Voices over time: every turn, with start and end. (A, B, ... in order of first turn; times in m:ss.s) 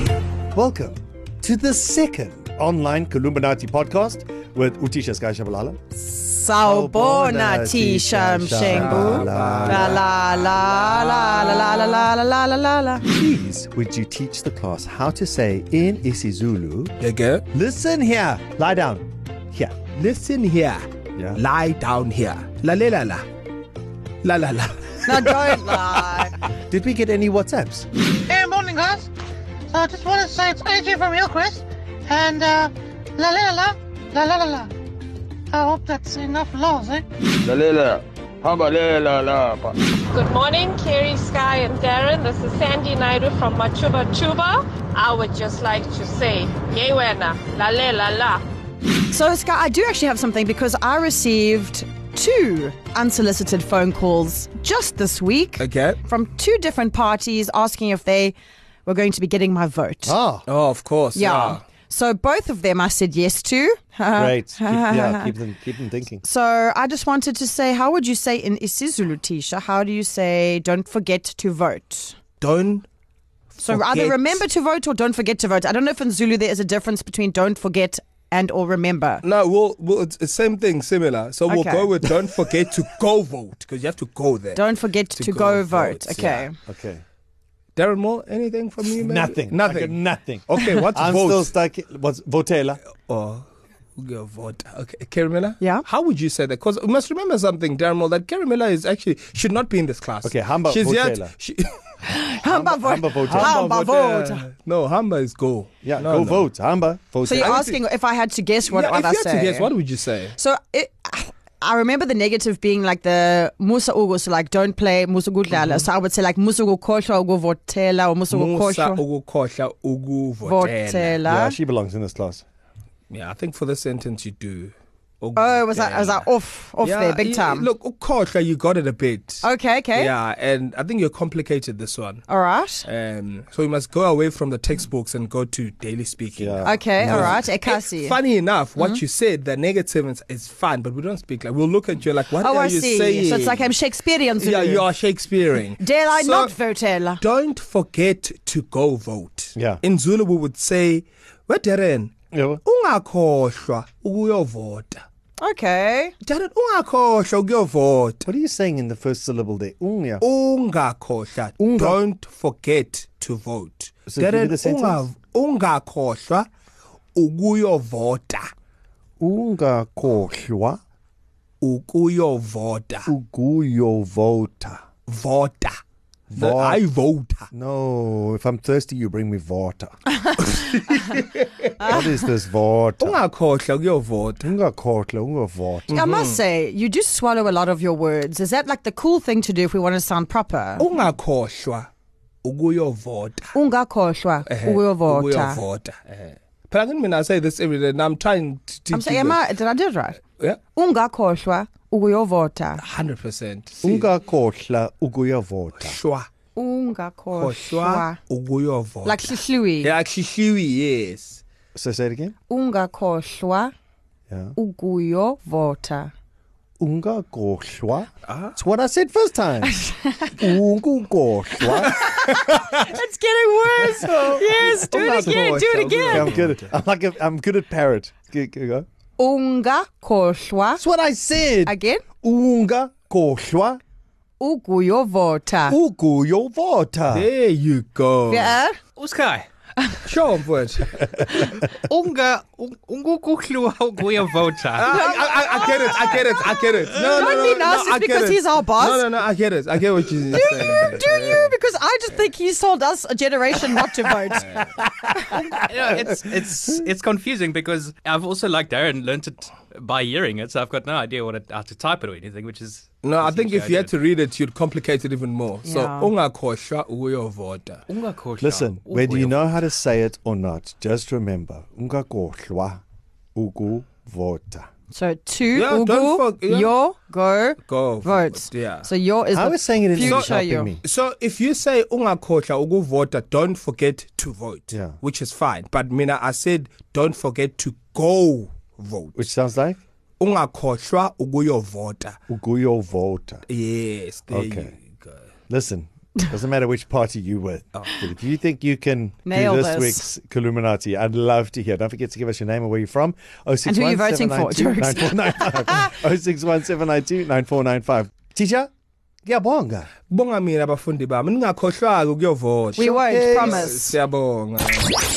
0:00.5-0:05.8 A
0:05.9-0:13.0 B
0:06.6-0:10.0 A
0:08.6-0:12.1 C
0:13.1-0:16.9 A
0:17.0-0:17.4 C
0:17.5-0:19.8 A
0:19.9-0:23.2 C
0:21.2-0:21.4 A
0:24.2-0:25.4 C
0:25.0-0:26.4 B
0:26.5-0:27.9 A
0:28.3-0:29.1 D
0:29.7-0:34.6 D
0:35.5-0:37.0 D
0:37.4-0:39.8 E
0:40.1-0:48.4 F
0:49.1-1:00.2 B
0:55.6-0:56.0 C
1:00.1-1:00.5 A
1:00.5-1:01.6 C
1:01.1-1:05.3 B
1:04.1-1:06.2 A
1:06.2-1:12.2 B
1:12.4-1:12.9 C
1:13.5-1:14.4 C
1:13.6-1:19.2 B
1:19.2-1:24.6 C
1:21.5-1:22.0 B
1:24.6-1:26.5 B
1:25.2-1:26.4 C
1:26.2-1:27.0 A
1:27.8-1:31.5 C
1:29.0-1:32.8 A
1:33.1-1:33.4 C
1:34.0-1:41.8 C
1:35.6-1:35.8 B
1:40.2-1:41.3 A
1:42.0-1:44.4 B
1:42.4-1:43.8 A
1:43.3-1:46.5 C
1:45.8-1:47.7 A
1:47.2-1:49.7 B
1:47.4-1:47.8 C
1:48.7-1:50.4 C
1:50.4-1:59.0 B
1:55.5-1:55.9 C
1:58.3-2:01.2 C
2:00.4-2:01.6 B
2:01.2-2:02.4 A
2:03.1-2:06.3 C
2:05.4-2:07.7 B
2:06.8-2:12.3 C
2:09.4-2:10.1 B
2:12.3-2:12.9 B
2:12.8-2:23.7 C
2:16.4-2:17.4 A
2:16.6-2:18.2 B
2:22.4-2:24.8 B
2:24.4-2:26.5 C
2:25.8-2:27.2 B
2:27.2-2:32.1 C
2:29.6-2:29.8 A
2:32.3-2:32.6 A
2:32.6-2:35.0 C
2:35.4-2:36.2 B
2:36.2-2:38.2 C
2:38.2-2:40.2 A
2:40.2-2:46.5 C
2:41.6-2:42.0 A
2:44.1-2:45.0 A
2:47.2-2:48.5 C
2:49.2-2:50.8 A
2:51.6-2:53.1 C
2:53.0-2:54.8 A
2:55.1-2:55.8 C
2:56.3-2:56.8 A
2:56.4-2:57.5 C
2:57.5-2:59.9 A
3:00.4-3:02.0 C
3:01.8-3:03.2 A
3:03.0-3:04.5 C
3:04.4-3:06.0 A
3:05.9-3:06.4 C
3:05.9-3:10.9 B
3:10.8-3:11.9 C
3:12.4-3:13.5 C
3:13.5-3:15.6 B
3:14.5-3:19.4 C
3:18.9-3:20.2 B
3:20.7-3:22.8 B
3:22.8-3:24.1 C
3:23.8-3:26.0 A
3:25.8-3:26.3 C
3:26.6-3:28.2 B
3:27.3-3:31.4 C
3:29.0-3:29.9 B
3:31.8-3:32.4 A
3:32.5-3:33.7 B
3:34.3-3:34.6 A
3:34.6-3:36.1 B
3:36.8-3:39.8 A
3:39.6-3:40.3 B
3:40.3-3:42.8 A
3:41.8-3:46.4 B
3:43.8-3:45.5 A
3:44.0-3:46.7 C
3:46.1-3:48.9 A
3:49.2-3:50.8 B
3:50.8-3:53.8 A
3:51.6-3:52.0 B
3:54.4-3:55.8 B
3:55.7-3:57.3 A
3:57.1-3:58.6 C
3:58.3-3:58.8 B
3:59.0-3:59.5 G
4:00.0-4:01.0 C
4:01.3-4:04.9 G
4:04.8-4:11.5 C
4:04.9-4:09.1 B
4:10.3-4:14.5 B
4:15.3-4:23.9 G
4:23.0-4:27.8 C
4:25.6-4:26.1 B
4:27.9-4:29.4 G
4:28.4-4:32.8 A
4:33.4-4:34.7 A
4:34.9-4:40.7 B
4:35.5-4:36.7 C
4:37.6-4:38.9 C
4:39.3-4:40.8 A
4:40.0-4:49.2 C
4:44.7-4:45.0 A
4:49.2-4:49.8 A
4:50.2-4:52.2 C
4:52.3-4:53.4 A
4:53.5-4:55.2 C
4:54.3-4:54.7 A
4:55.5-5:08.7 A
4:59.3-5:00.0 B
5:03.7-5:05.9 B
5:09.2-5:09.9 A
5:10.1-5:15.0 C
5:12.8-5:13.6 A
5:12.8-5:13.9 B